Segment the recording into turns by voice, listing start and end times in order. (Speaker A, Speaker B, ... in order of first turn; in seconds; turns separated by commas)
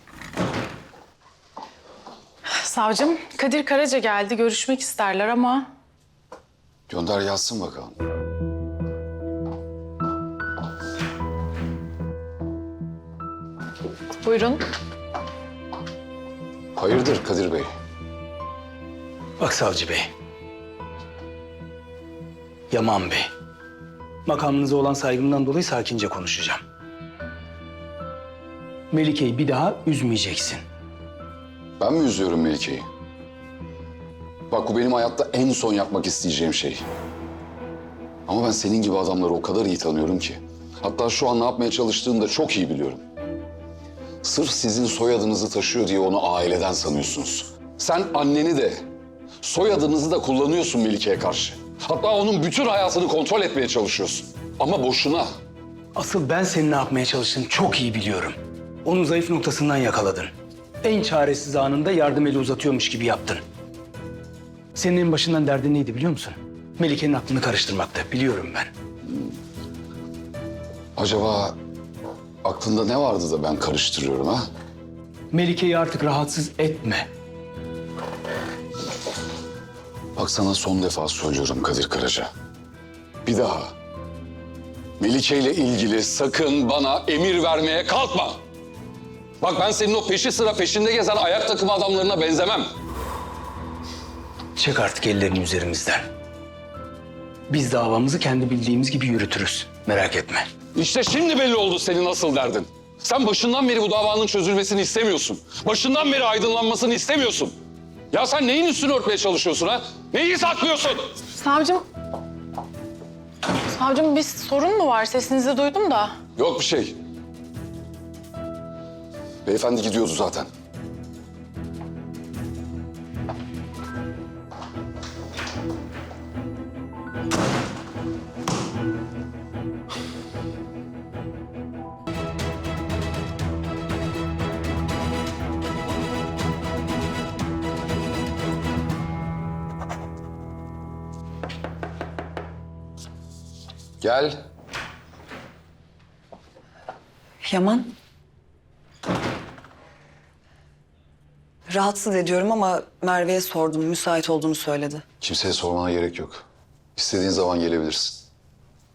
Speaker A: 2.5-5.7, Speaker B: 6.9-7.9, Speaker A: 14.2-14.7, Speaker B: 16.8-17.7, Speaker C: 19.4-20.1, Speaker C: 22.7-23.3, Speaker C: 24.2-26.6, Speaker C: 28.9-30.6, Speaker B: 31.8-32.9, Speaker B: 34.5-36.8, Speaker B: 38.3-43.0, Speaker B: 44.2-48.9, Speaker B: 49.4-55.3, Speaker C: 55.9-63.4, Speaker C: 64.7-68.7, Speaker B: 71.0-71.6, Speaker B: 72.4-74.4, Speaker C: 75.3-77.1, Speaker B: 80.2-82.3, Speaker B: 83.2-83.7, Speaker B: 85.0-88.4, Speaker B: 89.4-92.7, Speaker C: 94.5-96.0, Speaker C: 97.5-100.5, Speaker B: 100.7-107.5, Speaker B: 108.1-111.2, Speaker A: 111.3-111.8, Speaker A: 113.7-116.2, Speaker B: 116.4-117.0, Speaker B: 119.4-120.5, Speaker B: 144.0-144.4, Speaker D: 147.4-147.9, Speaker D: 151.7-155.0, Speaker B: 155.2-156.4, Speaker B: 156.9-158.2